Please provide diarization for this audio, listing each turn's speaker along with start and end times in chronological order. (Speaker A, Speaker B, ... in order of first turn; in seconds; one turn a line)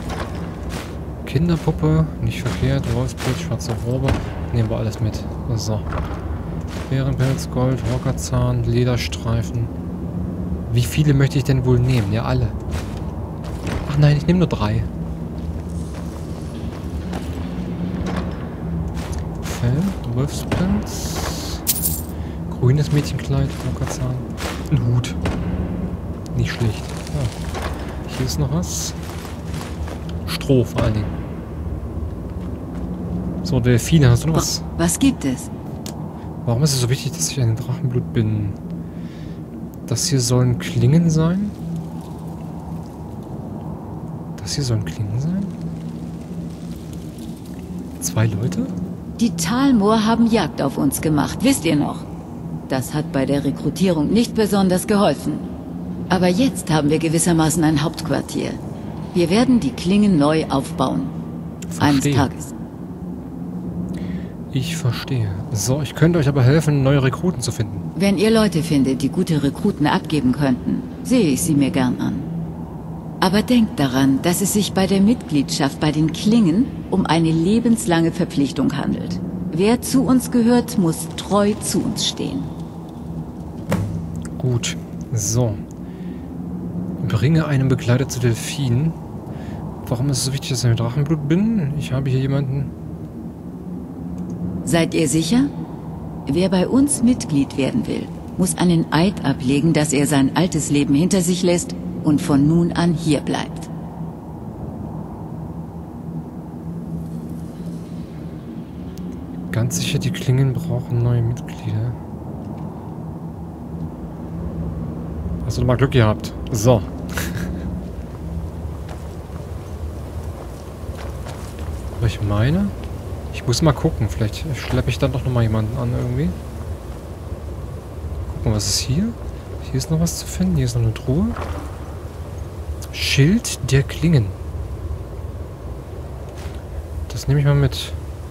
Speaker A: 1.2-5.8
Speaker A: 6.9-9.7
Speaker A: 10.7-12.6
Speaker A: 13.8-14.9
Speaker A: 19.4-21.6
Speaker A: 22.5-25.2
Speaker A: 26.3-27.3
Speaker A: 28.1-29.0
Speaker A: 30.2-31.1
Speaker A: 33.4-34.6
Speaker B: 34.3-35.5
Speaker A: 36.4-38.6
Speaker A: 39.9-41.5
Speaker A: 44.4-45.5
Speaker A: 48.0-48.7
Speaker B: 49.2-52.0
Speaker B: 52.7-55.4
Speaker B: 56.1-58.6
Speaker B: 59.1-61.1
Speaker A: 61.7-62.3
Speaker B: 61.8-62.5
Speaker A: 64.5-67.9
Speaker B: 67.9-72.3
Speaker B: 73.2-82.5
Speaker A: 84.4-85.6
Speaker A: 87.0-89.0
Speaker A: 89.8-92.7
Speaker B: 94.6-95.5
Speaker B: 96.3-103.7
Speaker A: 109.5-112.0
Speaker A: 115.4-117.5
Speaker A: 122.0-122.7
Speaker A: 123.3-126.3
Speaker A: 128.3-131.4
Speaker A: 132.9-134.4
Speaker A: 137.1-137.9